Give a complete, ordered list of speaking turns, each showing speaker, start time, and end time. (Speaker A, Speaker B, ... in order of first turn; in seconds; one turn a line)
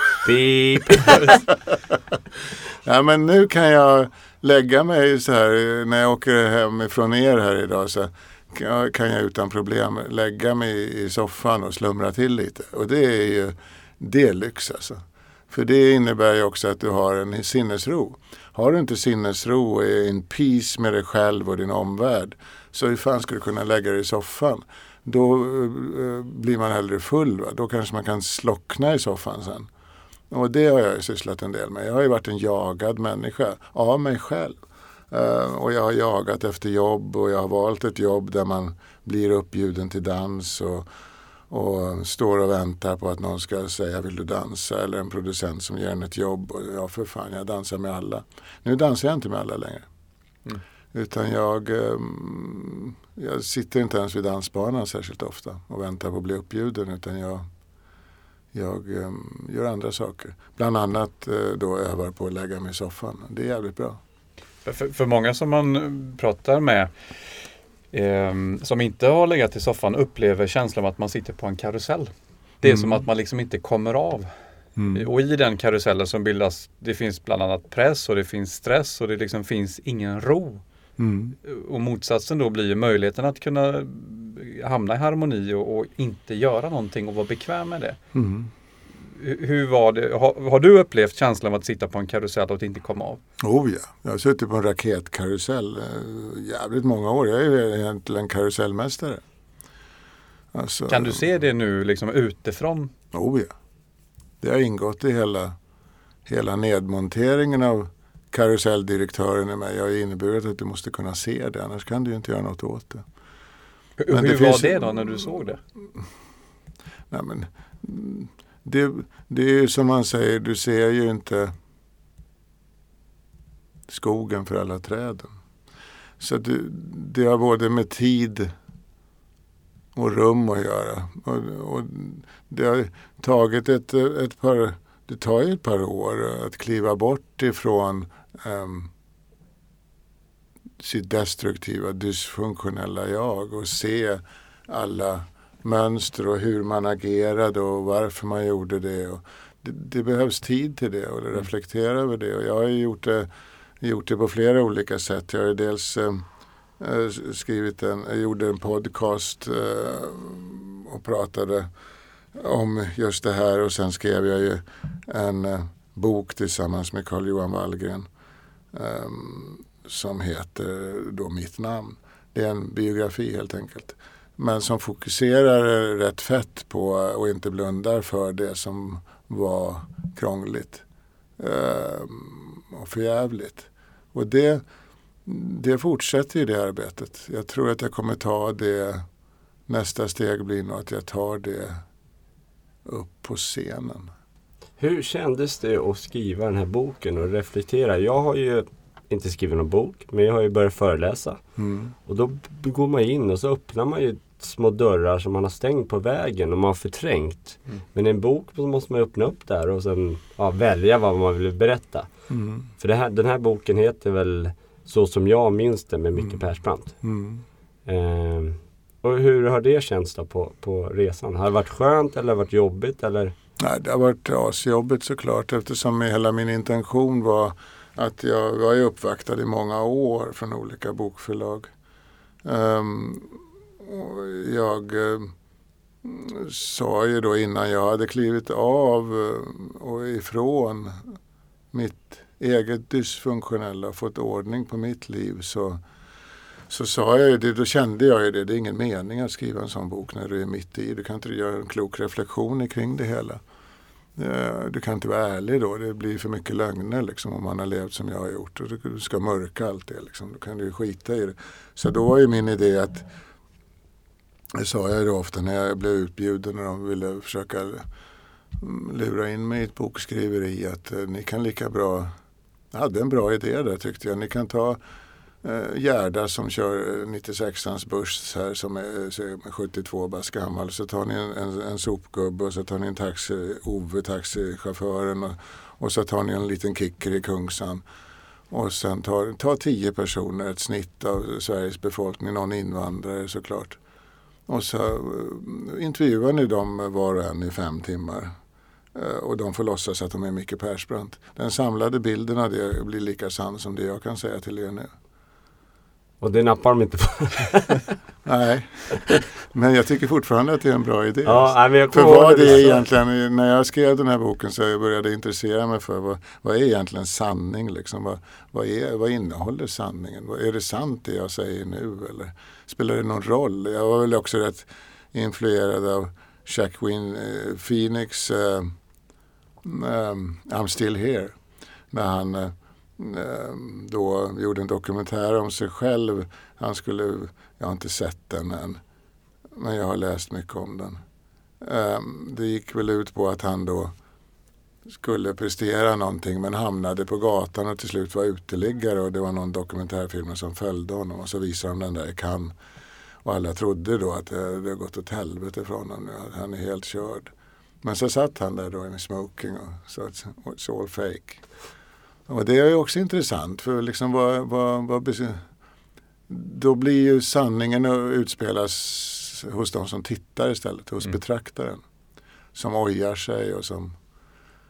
Speaker A: 0.2-1.3
Speaker B: 2.8-29.7
Speaker B: 30.3-34.6
Speaker B: 35.1-40.9
Speaker B: 41.5-49.9
Speaker B: 50.9-57.5
Speaker B: 58.5-64.0
Speaker C: 64.7-66.9
Speaker C: 67.9-72.1
Speaker C: 72.6-74.3
Speaker B: 72.6-73.0
Speaker B: 74.8-75.0
Speaker C: 74.9-80.6
Speaker B: 81.0-81.3
Speaker C: 81.4-88.0
Speaker B: 88.1-88.5
Speaker C: 89.0-93.2
Speaker B: 93.4-99.2
Speaker B: 100.5-101.2
Speaker C: 100.9-102.9
Speaker B: 103.1-103.5
Speaker B: 104.4-105.6
Speaker B: 106.3-113.1
Speaker C: 114.0-115.6
Speaker B: 114.1-115.0
Speaker B: 117.1-121.5
Speaker B: 123.9-125.3
Speaker B: 126.2-128.5
Speaker B: 129.9-138.9
Speaker B: 140.8-153.3
Speaker B: 153.8-156.3
Speaker B: 156.8-161.7
Speaker B: 162.3-168.1
Speaker B: 168.7-180.8
Speaker B: 181.4-184.6
Speaker B: 185.2-189.1
Speaker B: 189.7-191.8
Speaker B: 192.8-194.1
Speaker A: 194.8-201.4
Speaker B: 201.6-201.9
Speaker A: 202.1-212.1
Speaker B: 212.3-212.7
Speaker A: 212.8-216.9
Speaker B: 217.0-217.4
Speaker A: 217.9-223.3
Speaker B: 223.6-231.7
Speaker B: 232.4-235.3
Speaker B: 236.0-241.0
Speaker B: 241.7-245.8
Speaker B: 246.7-253.4
Speaker B: 254.2-263.1
Speaker B: 264.6-267.8
Speaker B: 268.6-272.1
Speaker B: 272.7-274.8
Speaker B: 275.4-287.8
Speaker B: 288.5-293.8
Speaker B: 294.5-298.3
Speaker B: 298.9-304.9
Speaker A: 306.2-307.8
Speaker B: 308.2-328.7
Speaker A: 311.3-312.8
Speaker B: 329.6-331.4
Speaker B: 331.9-338.8
Speaker B: 339.5-341.0
Speaker B: 341.6-343.9
Speaker B: 344.9-352.5
Speaker B: 353.2-357.3
Speaker B: 357.8-361.4
Speaker B: 362.3-365.4
Speaker B: 366.3-371.8
Speaker B: 372.6-374.0